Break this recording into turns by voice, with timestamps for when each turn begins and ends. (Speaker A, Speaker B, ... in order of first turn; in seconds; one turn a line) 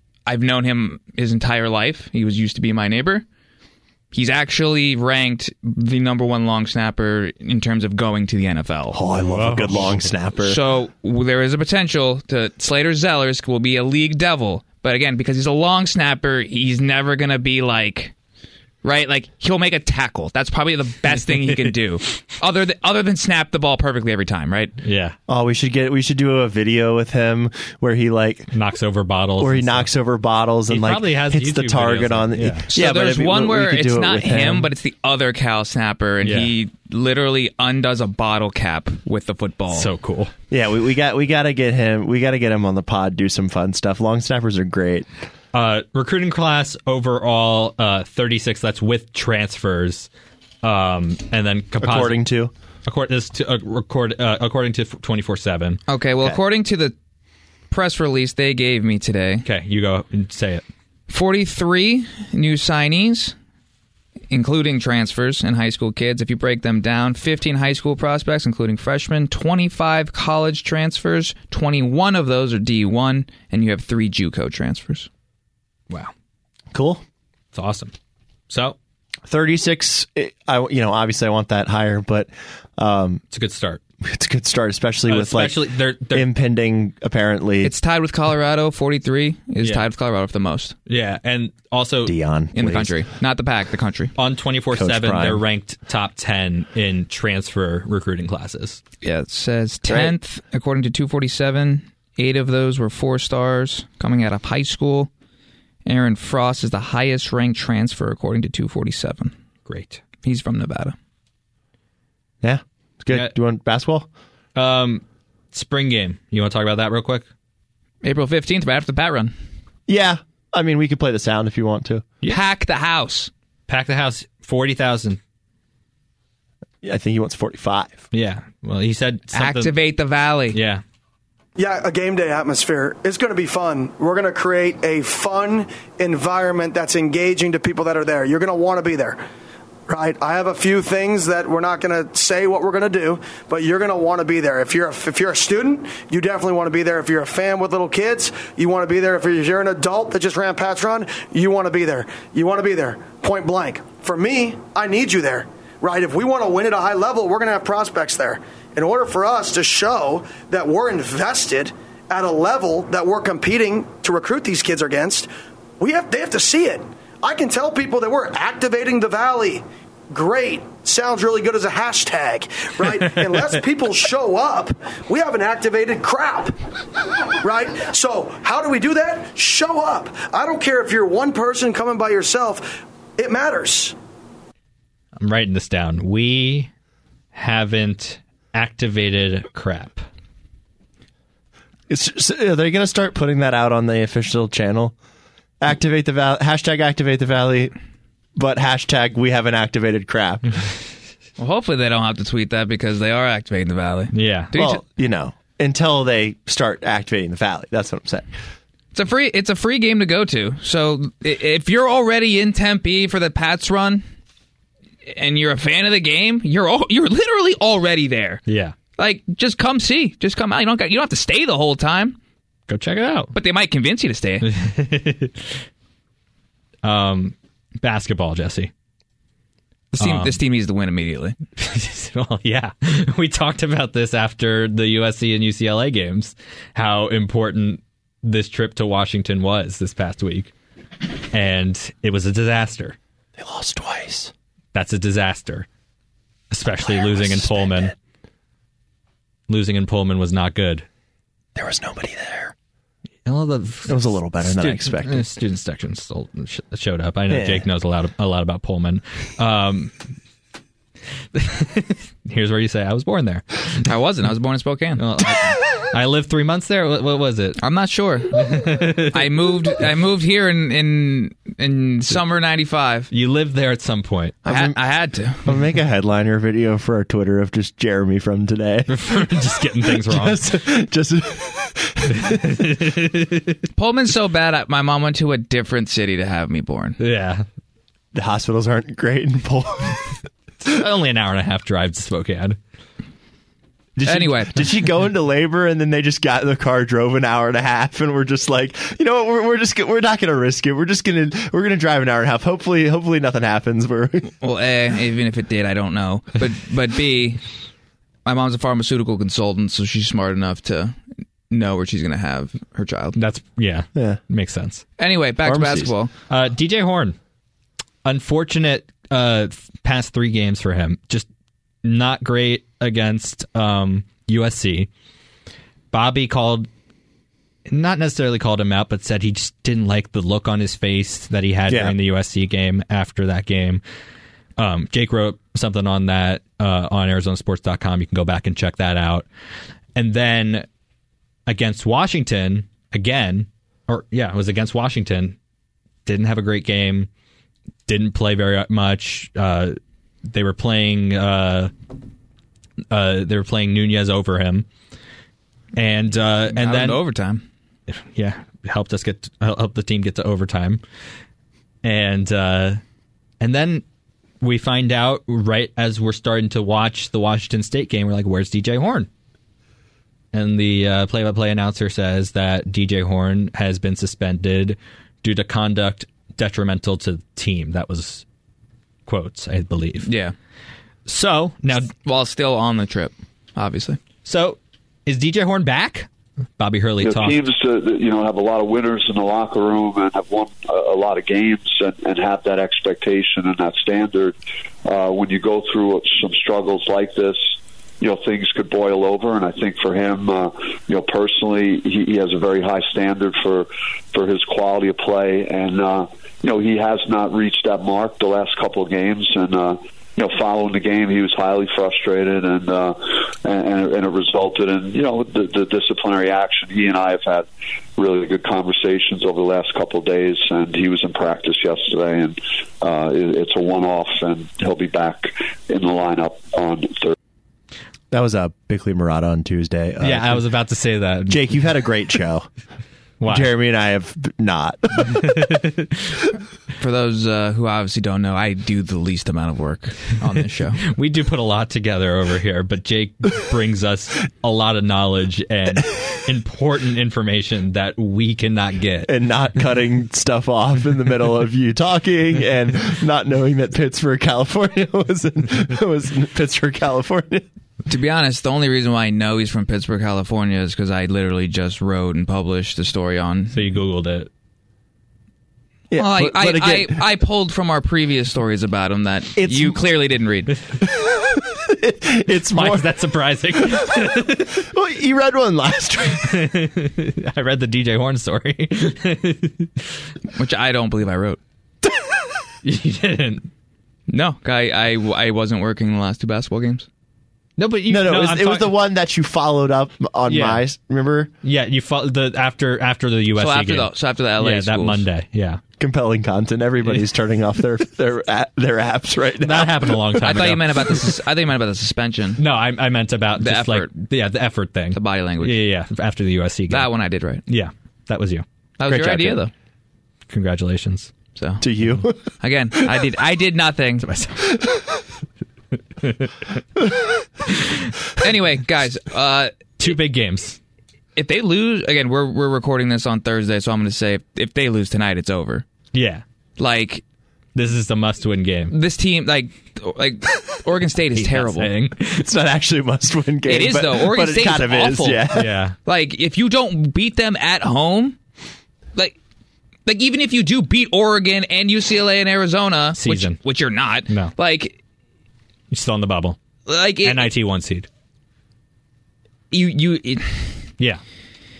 Speaker A: 0.2-3.2
Speaker A: 4.1-9.0
Speaker B: 8.9-10.6
Speaker C: 9.3-10.0
Speaker A: 10.4-18.1
Speaker A: 18.8-24.7
Speaker C: 24.8-25.1
Speaker B: 25.3-28.5
Speaker C: 28.5-29.9
Speaker B: 29.4-34.7
Speaker C: 30.7-32.7
Speaker A: 32.7-39.9
Speaker C: 36.2-36.5
Speaker C: 39.7-40.3
Speaker B: 40.5-45.1
Speaker C: 45.5-50.1
Speaker C: 50.6-52.2
Speaker B: 51.8-52.5
Speaker C: 52.9-55.8
Speaker A: 55.9-56.9
Speaker A: 57.7-59.5
Speaker C: 59.4-60.6
Speaker A: 61.1-63.3
Speaker A: 64.3-75.1
Speaker B: 76.7-77.0
Speaker C: 77.5-77.9
Speaker C: 78.5-78.8
Speaker B: 79.3-83.2
Speaker C: 83.3-83.8
Speaker B: 84.0-87.7
Speaker C: 85.1-86.3
Speaker A: 87.6-90.7
Speaker C: 90.9-92.1
Speaker B: 92.0-92.9
Speaker A: 92.5-94.1
Speaker C: 94.2-98.8
Speaker B: 94.7-95.4
Speaker A: 99.0-105.1
Speaker B: 99.9-100.1
Speaker A: 105.8-109.3
Speaker C: 109.7-110.0
Speaker A: 110.2-110.9
Speaker B: 112.4-114.1
Speaker C: 114.5-117.2
Speaker A: 118.0-119.3
Speaker B: 119.9-122.0
Speaker A: 122.2-123.3
Speaker C: 123.7-125.2
Speaker B: 126.8-128.0
Speaker C: 128.1-129.7
Speaker A: 129.3-130.6
Speaker C: 130.5-130.8
Speaker D: 131.6-139.2
Speaker D: 139.9-165.3
Speaker D: 165.8-176.6
Speaker D: 177.4-183.9
Speaker C: 185.2-186.7
Speaker C: 187.3-190.0
Speaker B: 191.9-194.9
Speaker B: 195.6-197.7
Speaker B: 198.3-200.5
Speaker A: 201.4-204.8
Speaker C: 204.1-204.5
Speaker B: 204.5-208.3
Speaker A: 208.9-214.0
Speaker A: 215.1-218.4
Speaker C: 218.5-218.7
Speaker A: 219.0-222.2
Speaker C: 222.7-223.3
Speaker A: 223.3-224.5
Speaker C: 224.4-225.5
Speaker C: 226.8-228.7
Speaker A: 229.9-231.4
Speaker C: 230.0-230.4
Speaker C: 231.6-240.5
Speaker C: 241.3-242.9
Speaker B: 243.4-244.3
Speaker C: 244.7-245.7
Speaker C: 246.5-247.9
Speaker B: 246.8-247.9
Speaker C: 249.5-250.8
Speaker B: 251.6-252.5
Speaker C: 253.2-259.9
Speaker B: 253.9-255.2
Speaker B: 257.3-257.6
Speaker C: 261.3-263.9
Speaker A: 263.8-265.0
Speaker C: 265.0-267.6
Speaker A: 267.6-273.1
Speaker C: 268.3-269.3
Speaker C: 273.1-274.4
Speaker B: 274.4-274.8
Speaker A: 274.5-275.5
Speaker B: 275.4-282.8
Speaker C: 278.9-280.5
Speaker C: 282.1-283.6
Speaker A: 283.8-287.0
Speaker C: 287.0-287.4
Speaker B: 288.1-290.1
Speaker C: 290.6-292.6
Speaker B: 293.9-304.3
Speaker A: 294.0-294.7
Speaker A: 304.4-307.4
Speaker A: 308.2-311.0
Speaker A: 311.5-313.2
Speaker C: 313.1-314.8
Speaker A: 315.0-316.1
Speaker B: 315.4-315.9
Speaker C: 316.3-317.1
Speaker C: 318.0-321.3
Speaker C: 321.8-324.9
Speaker C: 325.9-326.7
Speaker C: 327.7-333.8
Speaker B: 331.7-331.9
Speaker C: 334.6-339.2
Speaker C: 339.9-340.7
Speaker C: 341.5-345.4
Speaker C: 346.1-347.1
Speaker C: 347.9-351.7
Speaker C: 352.9-354.7
Speaker C: 355.7-357.0
Speaker A: 356.5-357.4
Speaker C: 357.9-360.8
Speaker C: 361.8-362.8
Speaker C: 363.4-363.8
Speaker C: 364.4-369.1
Speaker C: 370.3-378.2
Speaker C: 379.1-380.1
Speaker A: 380.0-380.3
Speaker C: 381.1-381.9
Speaker A: 381.7-384.0
Speaker C: 384.2-387.4
Speaker E: 387.0-427.1
Speaker B: 428.1-430.4
Speaker C: 430.0-431.6
Speaker B: 431.3-432.5
Speaker C: 433.2-433.5
Speaker B: 433.2-435.5
Speaker C: 435.1-435.9
Speaker A: 436.8-440.8
Speaker C: 440.8-449.1
Speaker B: 449.1-457.4
Speaker A: 457.9-463.6
Speaker C: 463.5-464.3
Speaker B: 465.9-467.0
Speaker A: 466.0-470.6
Speaker B: 469.4-469.8
Speaker B: 470.8-472.9
Speaker C: 472.5-474.6
Speaker B: 473.6-476.5
Speaker C: 476.2-479.9
Speaker A: 480.3-481.4
Speaker B: 481.8-482.1
Speaker C: 482.6-483.5
Speaker A: 484.1-486.9
Speaker C: 487.6-488.7
Speaker B: 487.9-491.3
Speaker C: 490.3-490.6
Speaker C: 491.4-495.6
Speaker A: 493.3-495.0
Speaker B: 495.8-500.2
Speaker C: 499.4-501.1
Speaker A: 500.2-502.4
Speaker C: 502.4-506.9
Speaker A: 503.4-503.9
Speaker A: 504.9-505.6
Speaker A: 506.7-507.4
Speaker C: 507.4-508.4
Speaker A: 508.8-509.5
Speaker B: 508.9-509.4
Speaker C: 510.3-511.1
Speaker A: 511.4-511.6
Speaker B: 511.6-512.1
Speaker A: 512.4-514.1
Speaker C: 514.0-514.3
Speaker C: 516.0-516.3
Speaker C: 517.4-518.0
Speaker A: 518.2-519.7
Speaker C: 519.8-520.6
Speaker A: 521.1-525.6
Speaker C: 525.9-526.2
Speaker A: 526.6-527.0
Speaker C: 527.5-528.7
Speaker A: 528.7-531.7
Speaker C: 531.1-532.2
Speaker B: 532.1-535.5
Speaker A: 533.5-535.3
Speaker C: 535.3-535.8
Speaker A: 535.9-538.2
Speaker A: 539.9-544.8
Speaker C: 542.9-543.4
Speaker C: 544.1-544.3
Speaker C: 545.7-546.4
Speaker A: 546.7-547.3
Speaker C: 547.0-547.9
Speaker A: 549.5-550.4